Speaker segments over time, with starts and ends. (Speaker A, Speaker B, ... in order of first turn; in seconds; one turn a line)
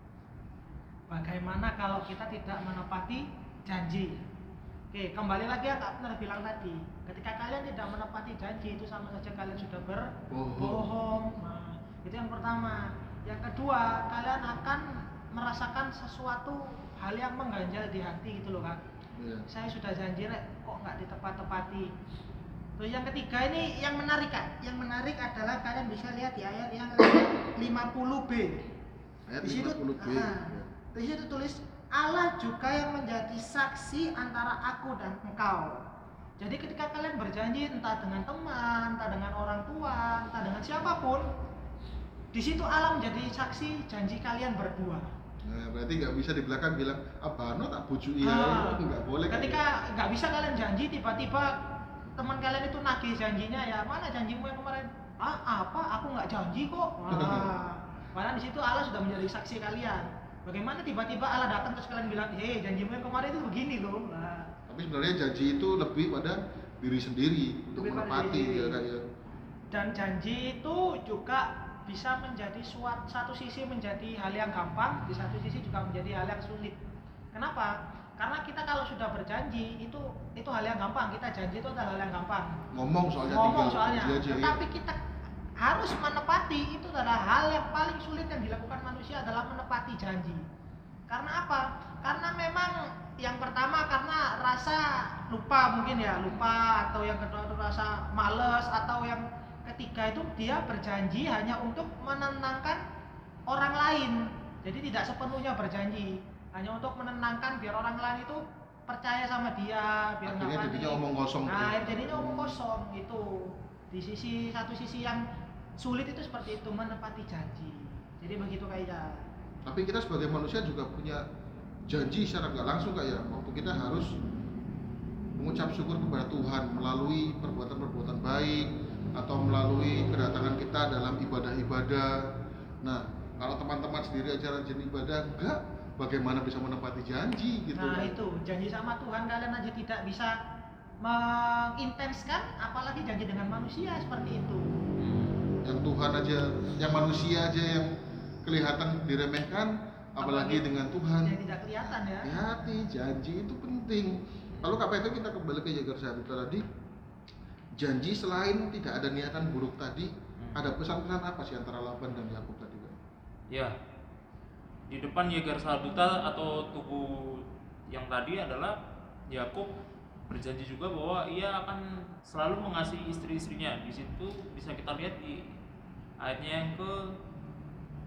Speaker A: 1.1-4.2
Speaker A: 4.9-18.8
Speaker B: 10.3-10.8
Speaker B: 19.1-19.4
Speaker A: 19.5-21.9
Speaker A: 22.8-28.6
Speaker B: 29.3-30.7
Speaker A: 29.4-35.8
Speaker A: 36.4-41.2
Speaker A: 42.3-45.1
Speaker B: 45.4-49.6
Speaker A: 48.2-51.5
Speaker A: 52.1-64.5
Speaker B: 57.1-57.5
Speaker B: 64.7-69.0
Speaker A: 67.8-68.8
Speaker A: 69.7-76.8
Speaker A: 77.3-82.6
Speaker B: 82.7-84.6
Speaker A: 83.2-85.0
Speaker A: 85.6-90.4
Speaker A: 91.1-102.8
Speaker A: 103.5-115.2
Speaker B: 110.2-112.5
Speaker A: 115.8-119.2
Speaker B: 119.7-121.2
Speaker B: 121.9-124.1
Speaker B: 125.4-132.1
Speaker B: 132.8-138.2
Speaker A: 137.8-140.3
Speaker A: 141.0-144.8
Speaker C: 145.0-145.4
Speaker B: 145.6-147.9
Speaker B: 148.4-156.6
Speaker A: 150.2-150.6
Speaker A: 151.2-152.3
Speaker B: 157.8-162.9
Speaker C: 160.4-160.7
Speaker C: 163.5-163.8
Speaker C: 164.9-168.7
Speaker C: 169.3-169.7
Speaker C: 170.3-175.5
Speaker C: 176.2-177.1